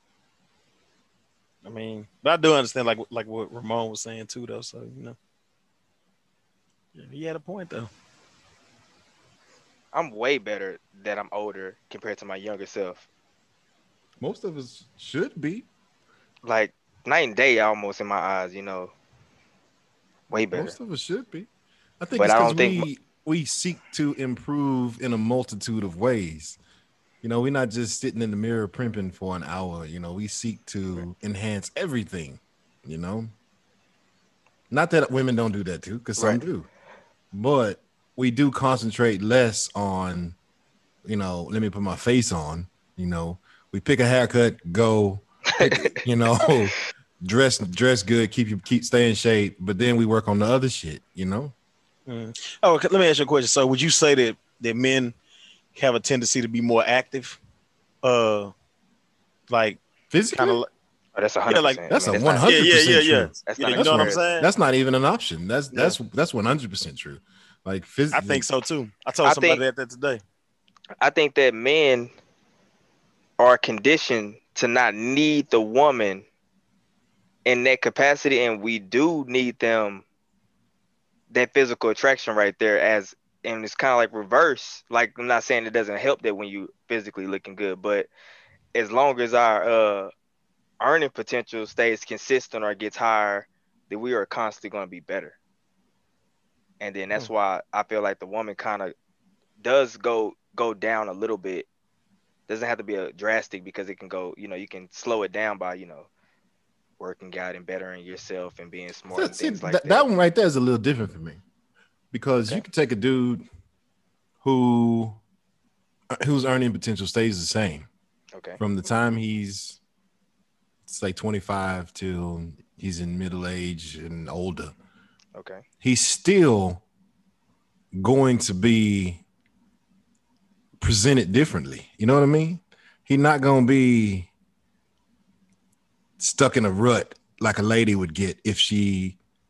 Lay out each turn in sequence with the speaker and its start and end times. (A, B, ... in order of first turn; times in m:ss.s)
0:01.6-0:05.2 A
0:06.9-0:07.9 A
0:09.9-0:13.0 B
0:14.2-0:15.6 C
0:16.4-0:18.9 B
0:20.3-0:20.8 B
0:20.5-0:21.5 C
0:22.0-0:26.6 C
0:22.2-0:22.9 B
0:27.2-0:33.3 C
0:34.7-0:36.7 C
0:36.2-0:36.4 B
0:37.3-0:40.4 C
0:41.0-0:51.5 C
0:45.6-0:45.9 B
0:52.1-0:55.1 A
0:55.7-0:57.4 A
0:58.0-0:58.5 A
0:59.5-0:59.8 A
1:00.1-1:00.6 C
1:00.3-1:00.7 A
1:01.2-1:02.5 B
1:01.5-1:01.8 A
1:01.9-1:08.4 C
1:02.4-1:04.5 A
1:03.5-1:04.4 B
1:05.7-1:06.0 A
1:08.1-1:10.2 A
1:09.2-1:09.6 B
1:11.0-1:12.1 B
1:13.4-1:16.2 B
1:17.4-1:20.0 B
1:21.3-1:28.1 B
1:28.7-1:30.1 B
1:30.8-1:35.4 B
1:36.8-1:38.9 B
1:39.6-1:41.7 B
1:42.5-1:46.1 B
1:47.0-1:50.1 B
1:49.1-1:51.4 C
1:52.1-1:53.4 C
1:54.4-1:55.2 C
1:56.1-1:57.9 C
1:58.6-1:59.8 C
2:00.9-2:04.7 C
2:05.4-2:05.6 B
2:05.8-2:06.8 C
2:07.9-2:09.2 C
2:10.8-2:14.3 C
2:16.2-2:19.2 C